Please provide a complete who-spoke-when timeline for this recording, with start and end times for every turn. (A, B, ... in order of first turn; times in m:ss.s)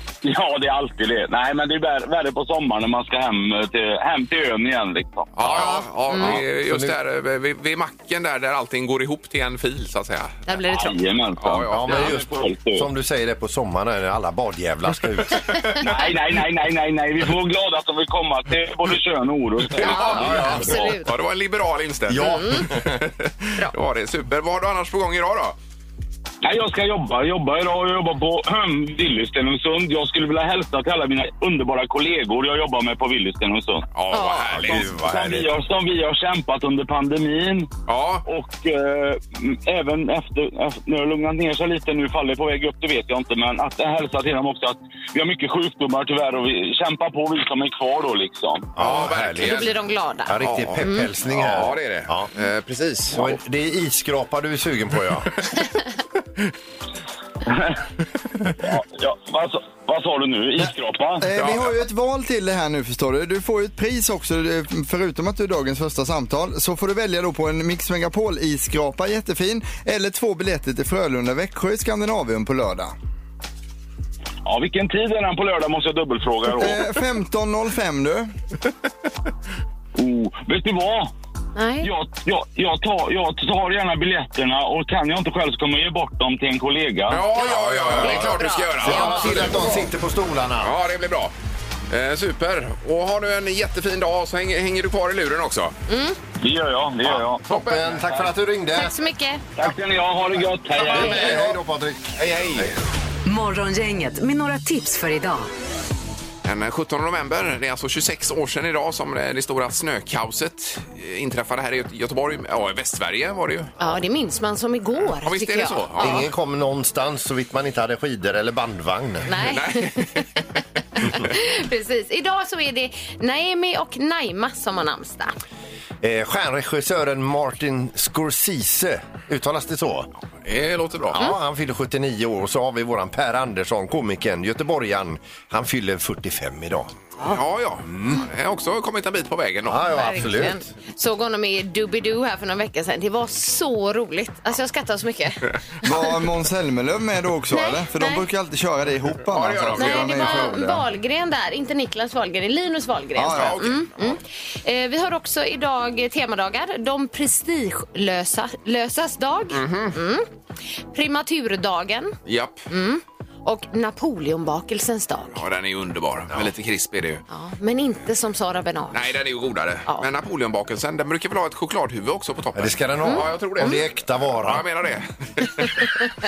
0:00.2-0:05.3 A
0:05.3-0:10.4 B
0:05.4-0:07.0 C
0:05.5-0:06.4 D
0:10.5-0:11.0 D
0:10.7-0:12.9 A
0:11.4-0:12.2 B
0:11.7-0:15.9 C
0:15.8-0:20.7 A
0:19.8-0:25.6 B
0:19.8-0:21.1 D
0:20.0-0:20.8 C
0:22.1-0:23.0 C
0:22.2-0:22.7 D
0:26.4-0:33.9 A
0:33.9-0:34.9 B
0:34.1-0:34.5 D
0:34.4-0:35.5 C
0:34.7-0:37.7 A
0:37.9-0:38.2 B
0:38.2-0:48.7 A
0:48.8-0:49.7 C
0:48.8-0:49.8 B
0:49.4-0:51.1 D
0:50.3-0:52.3 C
0:50.4-0:53.4 B
0:53.1-0:55.6 C
0:57.5-0:57.8 A
0:58.6-1:01.2 A
1:00.6-1:12.9 E
1:01.4-1:01.7 B
1:14.4-1:16.8 A
1:16.6-1:18.3 E
1:20.0-1:21.1 A
1:21.5-1:21.9 D
1:21.8-1:27.2 A
1:27.1-1:29.8 B
1:27.4-1:30.7 C
1:27.4-1:29.8 D
1:30.6-1:31.3 B
1:31.9-1:35.7 B
1:35.9-1:36.2 D
1:36.4-1:37.5 A
1:37.0-1:39.0 C
1:37.5-1:38.0 B
1:38.7-1:39.5 D
1:39.5-1:41.5 A
1:40.8-1:42.7 C
1:41.0-1:41.4 B
1:42.2-1:42.7 B
1:43.2-1:45.5 F
1:46.4-1:53.7 B
1:53.8-1:56.3 D
1:55.2-1:56.3 B
1:56.0-1:59.3 C
1:59.2-2:00.4 D
1:59.5-2:00.2 B
2:01.0-2:05.4 D
2:06.0-2:10.1 C
2:10.4-2:11.2 B
2:11.1-2:17.0 C
2:17.2-2:19.8 B
2:17.9-2:18.2 C
2:19.7-2:20.7 C
2:19.8-2:25.9 D
2:25.8-2:30.8 E
2:27.5-2:28.2 D
2:29.2-2:30.5 B
2:29.8-2:40.3 D
2:33.2-2:33.6 E
2:33.3-2:34.2 B
2:39.5-2:40.0 B
2:40.9-2:42.2 D
2:42.2-2:42.6 B
2:42.7-2:45.4 D
2:45.3-2:47.2 B
2:47.3-2:49.1 D
2:48.9-2:56.0 B
2:52.5-2:54.7 C
2:53.0-2:53.8 D